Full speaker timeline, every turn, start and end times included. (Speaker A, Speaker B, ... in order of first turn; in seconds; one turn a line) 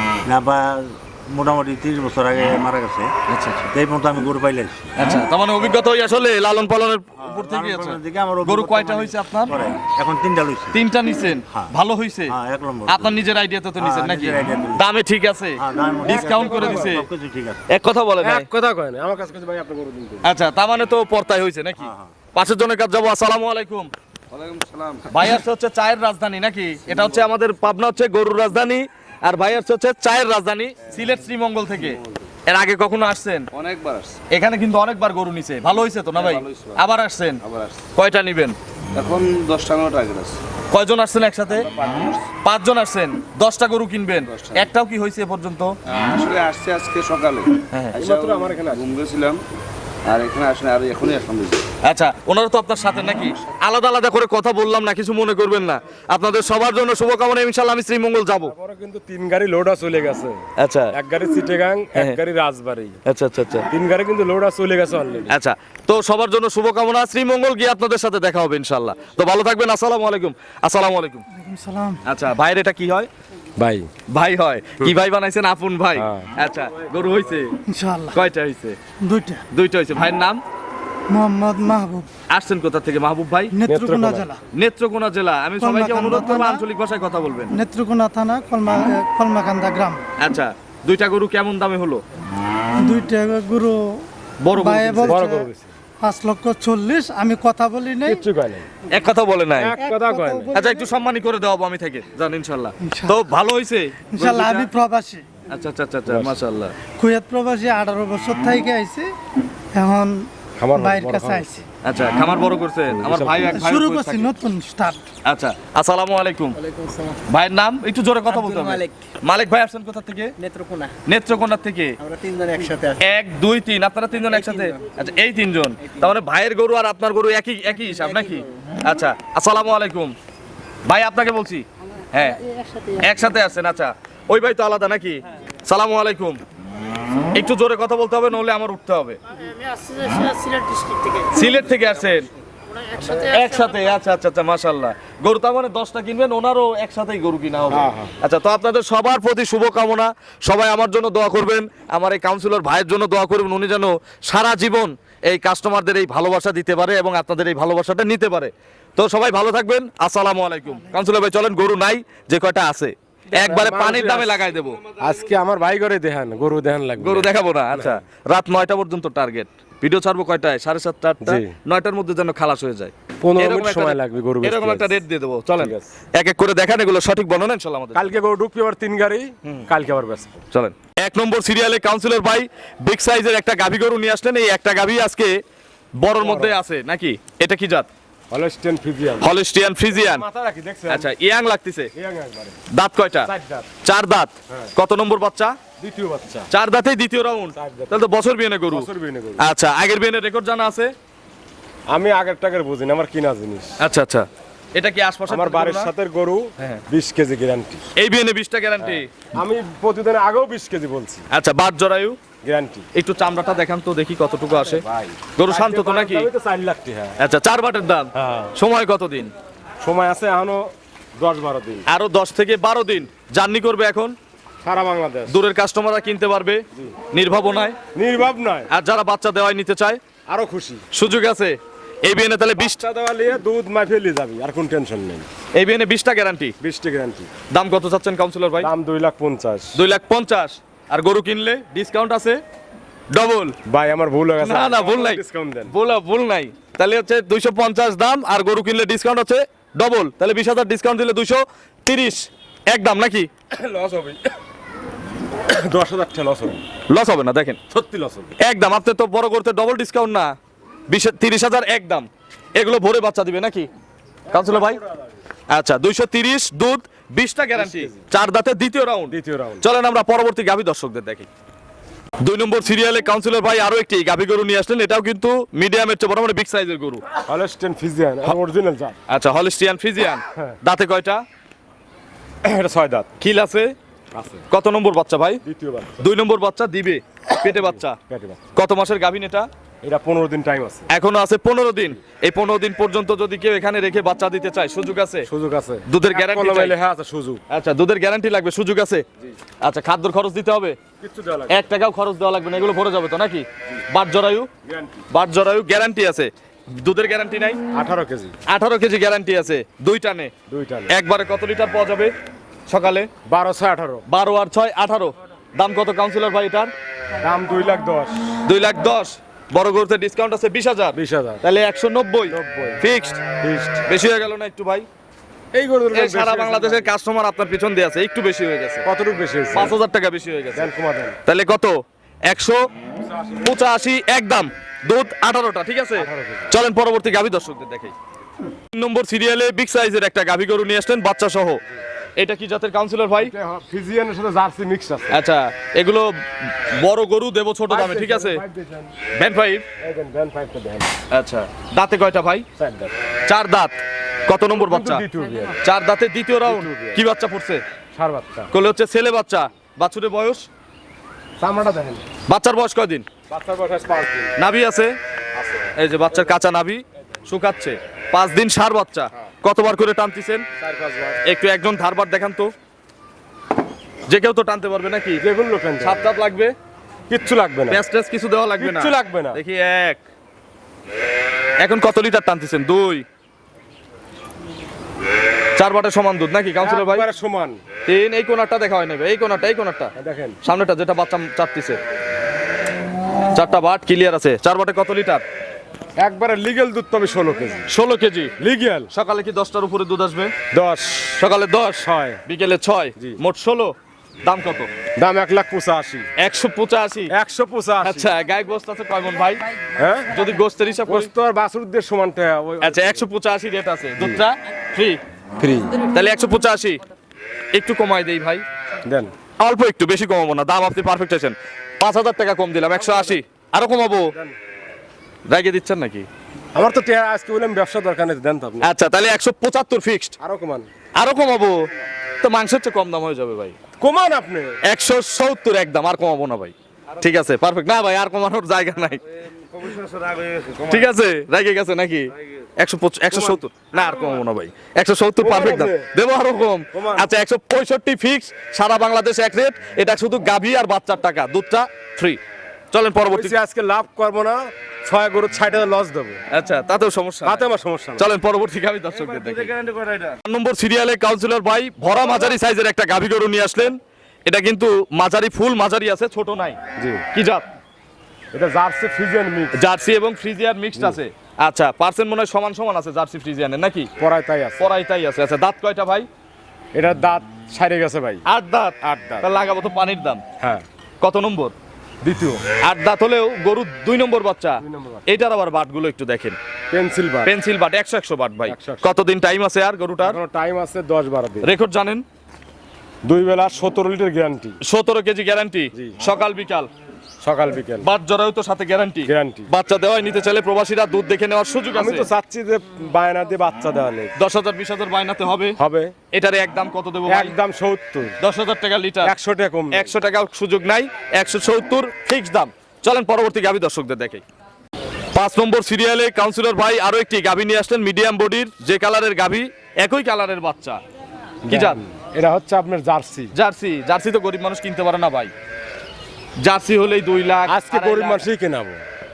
Speaker A: 0.2-3.1
Speaker B: 3.3-3.7
Speaker A: 3.7-4.9
Speaker B: 5.0-9.5
Speaker A: 7.2-10.8
Speaker B: 10.7-12.3
Speaker A: 12.3-13.2
Speaker B: 12.9-17.0
Speaker A: 13.8-14.9
Speaker A: 15.6-17.6
Speaker C: 16.1-16.9
Speaker B: 17.7-18.5
Speaker C: 18.2-20.3
Speaker B: 20.2-23.9
Speaker A: 21.8-22.1
Speaker D: 24.3-25.1
Speaker B: 25.1-33.5
Speaker D: 31.8-32.3
Speaker D: 33.5-34.2
Speaker B: 34.3-37.4
Speaker D: 36.1-36.8
Speaker D: 37.4-37.8
Speaker B: 37.9-38.6
Speaker D: 38.9-40.4
Speaker B: 40.7-41.6
Speaker D: 41.5-42.3
Speaker B: 42.4-45.7
Speaker D: 44.2-44.6
Speaker D: 45.9-49.4
Speaker C: 48.0-48.8
Speaker D: 50.1-51.6
Speaker B: 51.8-58.5
Speaker C: 58.4-63.0
Speaker B: 60.6-61.0
Speaker B: 63.0-63.7
Speaker C: 63.7-65.3
Speaker B: 65.3-71.2
Speaker E: 71.3-72.0
Speaker B: 72.0-73.1
Speaker C: 73.6-73.9
Speaker B: 74.1-77.5
Speaker C: 76.0-76.3
Speaker E: 77.7-78.2
Speaker B: 78.1-78.8
Speaker E: 79.0-79.4
Speaker B: 79.5-80.4
Speaker E: 81.1-82.1
Speaker B: 82.3-83.5
Speaker E: 83.5-84.4
Speaker C: 83.7-84.3
Speaker B: 84.5-87.5
Speaker E: 85.6-86.6
Speaker E: 87.5-90.0
Speaker B: 90.2-92.0
Speaker E: 92.8-93.9
Speaker B: 94.4-95.2
Speaker E: 94.6-95.5
Speaker C: 95.0-95.7
Speaker E: 96.0-98.2
Speaker C: 98.0-98.7
Speaker B: 98.9-99.7
Speaker C: 99.5-100.5
Speaker E: 99.8-100.9
Speaker B: 100.5-104.7
Speaker E: 102.8-103.2
Speaker E: 104.1-105.2
Speaker B: 105.5-106.7
Speaker C: 106.1-106.4
Speaker E: 107.0-109.1
Speaker E: 109.7-111.6
Speaker C: 110.6-111.6
Speaker B: 111.8-114.3
Speaker C: 112.9-113.5
Speaker E: 113.5-115.1
Speaker B: 115.2-116.6
Speaker F: 116.6-117.2
Speaker B: 117.3-120.3
Speaker F: 118.3-119.1
Speaker F: 120.4-120.9
Speaker B: 121.0-122.0
Speaker F: 122.0-123.0
Speaker B: 123.0-130.1
Speaker F: 124.3-124.9
Speaker F: 127.7-128.4
Speaker B: 130.8-132.4
Speaker F: 132.4-133.1
Speaker B: 133.0-136.4
Speaker B: 137.3-139.2
Speaker F: 139.3-143.9
Speaker B: 141.3-142.3
Speaker B: 143.1-164.8
Speaker C: 147.7-148.1
Speaker C: 163.3-164.4
Speaker C: 165.0-168.0
Speaker B: 167.0-178.1
Speaker C: 171.2-171.5
Speaker C: 173.2-175.0
Speaker C: 175.6-175.9
Speaker C: 177.9-180.4
Speaker B: 180.5-185.4
Speaker B: 186.0-187.9
Speaker C: 186.2-186.6
Speaker C: 188.3-189.3
Speaker B: 189.2-190.2
Speaker C: 189.9-191.1
Speaker B: 190.9-191.9
Speaker C: 191.9-192.6
Speaker B: 192.7-193.3
Speaker C: 193.2-193.7
Speaker B: 193.8-195.6
Speaker C: 195.8-196.5
Speaker B: 196.5-198.9
Speaker C: 197.5-198.0
Speaker C: 198.7-199.4
Speaker B: 199.4-200.9
Speaker C: 201.9-203.8
Speaker B: 203.8-205.9
Speaker C: 205.3-207.8
Speaker B: 208.0-209.2
Speaker C: 208.8-211.3
Speaker B: 211.3-212.2
Speaker C: 212.4-212.9
Speaker B: 212.9-214.8
Speaker C: 214.6-217.2
Speaker B: 215.3-216.3
Speaker B: 217.2-219.3
Speaker C: 218.2-218.5
Speaker C: 219.8-221.8
Speaker B: 221.9-224.2
Speaker C: 224.6-225.4
Speaker B: 225.3-227.8
Speaker C: 227.9-228.7
Speaker B: 228.7-230.0
Speaker C: 230.3-230.8
Speaker B: 230.9-232.8
Speaker C: 232.6-235.3
Speaker B: 235.5-236.5
Speaker C: 236.6-237.3
Speaker B: 237.5-238.7
Speaker C: 238.6-239.8
Speaker B: 239.7-242.4
Speaker B: 243.1-243.6
Speaker C: 243.7-245.7
Speaker B: 244.4-253.3
Speaker C: 253.5-254.3
Speaker C: 255.4-256.6
Speaker B: 256.9-257.6
Speaker C: 257.7-258.3
Speaker B: 258.4-260.3
Speaker B: 260.9-263.7
Speaker C: 264.3-265.2
Speaker B: 264.3-264.8
Speaker B: 265.5-271.3
Speaker C: 267.5-268.1
Speaker C: 269.1-269.6
Speaker B: 272.2-277.0
Speaker C: 277.2-279.0
Speaker B: 279.1-281.2
Speaker C: 282.4-283.1
Speaker B: 283.2-283.7
Speaker C: 284.1-284.4
Speaker B: 284.5-285.4
Speaker C: 285.4-286.0
Speaker B: 286.0-288.0
Speaker C: 287.4-288.5
Speaker B: 288.6-289.5
Speaker C: 289.8-290.9
Speaker B: 290.9-295.3
Speaker C: 295.2-297.4
Speaker B: 295.9-296.7
Speaker B: 297.5-299.0
Speaker B: 299.6-300.8
Speaker C: 301.0-301.7
Speaker B: 301.5-304.5
Speaker C: 304.6-305.1
Speaker B: 305.1-307.6
Speaker C: 307.7-308.4
Speaker B: 308.5-310.3
Speaker C: 310.5-310.9
Speaker B: 310.9-312.1
Speaker B: 312.7-313.1
Speaker C: 313.2-314.0
Speaker B: 314.1-316.7
Speaker C: 317.2-318.3
Speaker B: 318.4-323.2
Speaker C: 320.9-321.4
Speaker C: 322.3-322.8
Speaker C: 323.4-323.8
Speaker B: 323.9-324.9
Speaker C: 325.5-326.9
Speaker B: 325.9-328.9
Speaker C: 328.9-329.8
Speaker B: 329.5-330.7
Speaker C: 330.5-331.2
Speaker B: 331.2-332.7
Speaker C: 333.0-333.5
Speaker B: 333.4-337.9
Speaker C: 335.9-336.5
Speaker B: 338.7-341.6
Speaker B: 342.2-343.3
Speaker C: 343.2-345.2
Speaker B: 345.1-348.4
Speaker C: 347.7-348.9
Speaker B: 349.1-349.6
Speaker C: 349.8-350.9
Speaker B: 351.1-352.4
Speaker C: 352.6-352.9
Speaker B: 353.3-355.0
Speaker C: 354.5-355.6
Speaker B: 355.6-357.6
Speaker C: 356.4-357.0
Speaker C: 357.9-358.5
Speaker B: 358.5-360.4
Speaker C: 361.4-362.1
Speaker B: 362.3-363.1
Speaker C: 363.3-364.3
Speaker B: 364.4-364.9
Speaker C: 365.3-366.4
Speaker B: 365.8-370.4
Speaker C: 370.6-371.2
Speaker B: 371.2-372.5
Speaker B: 374.1-375.2
Speaker C: 375.2-376.1
Speaker B: 375.8-376.5
Speaker C: 377.1-377.8
Speaker B: 377.7-380.0
Speaker C: 378.6-379.4
Speaker B: 381.6-383.0
Speaker B: 385.6-387.0
Speaker C: 386.6-387.6
Speaker B: 387.9-389.9
Speaker C: 389.9-390.4
Speaker B: 390.4-391.8
Speaker B: 393.3-395.2
Speaker C: 396.0-397.7
Speaker B: 397.7-398.3
Speaker C: 398.4-398.9
Speaker B: 398.9-400.3
Speaker C: 400.5-401.3
Speaker B: 401.2-403.7
Speaker C: 401.8-402.2
Speaker B: 404.2-404.7
Speaker C: 405.0-406.1
Speaker B: 406.2-407.1
Speaker C: 407.1-408.1
Speaker B: 407.8-409.4
Speaker C: 409.8-410.1
Speaker B: 410.1-411.1
Speaker C: 410.9-413.1
Speaker B: 412.6-415.0
Speaker C: 414.0-414.2
Speaker C: 415.4-415.8
Speaker B: 415.9-416.8
Speaker B: 417.5-418.4
Speaker C: 418.8-419.1
Speaker B: 419.4-424.1
Speaker C: 422.7-423.2
Speaker C: 424.1-424.4
Speaker B: 425.3-426.1
Speaker C: 426.5-428.7
Speaker B: 428.6-430.1
Speaker C: 430.2-430.7
Speaker B: 431.0-431.6
Speaker B: 432.2-433.6
Speaker C: 433.8-434.6
Speaker B: 434.6-439.0
Speaker D: 439.5-440.4
Speaker C: 439.8-440.9
Speaker B: 440.7-452.2
Speaker C: 443.1-444.2
Speaker C: 445.2-445.9
Speaker C: 446.7-447.1
Speaker B: 452.7-453.4
Speaker C: 453.0-456.2
Speaker B: 456.3-457.4
Speaker C: 457.2-458.1
Speaker B: 458.0-466.6
Speaker C: 458.9-460.0
Speaker C: 466.8-467.0
Speaker B: 467.1-467.5
Speaker C: 468.3-469.6
Speaker B: 469.5-473.9
Speaker C: 474.0-474.7
Speaker B: 474.6-476.1
Speaker C: 476.7-478.2
Speaker B: 478.3-480.2
Speaker C: 478.8-479.3
Speaker C: 480.4-480.6
Speaker B: 481.0-481.5
Speaker C: 482.0-482.4
Speaker B: 482.6-486.4
Speaker C: 484.6-485.0
Speaker C: 486.7-487.3
Speaker B: 487.2-490.2
Speaker C: 488.4-488.9
Speaker C: 490.0-491.5
Speaker B: 491.4-492.0
Speaker C: 493.0-494.6
Speaker B: 494.6-496.7
Speaker C: 497.2-497.9
Speaker B: 497.8-502.1
Speaker C: 499.1-499.5
Speaker C: 501.7-504.1
Speaker B: 504.2-505.6
Speaker C: 505.6-505.9
Speaker B: 506.1-507.3
Speaker C: 507.1-508.2
Speaker B: 508.2-509.1
Speaker C: 509.0-509.9
Speaker B: 509.7-514.2
Speaker B: 515.1-520.8
Speaker C: 521.5-523.3
Speaker B: 521.5-521.8
Speaker B: 523.3-525.3
Speaker B: 526.4-528.2
Speaker C: 527.5-528.8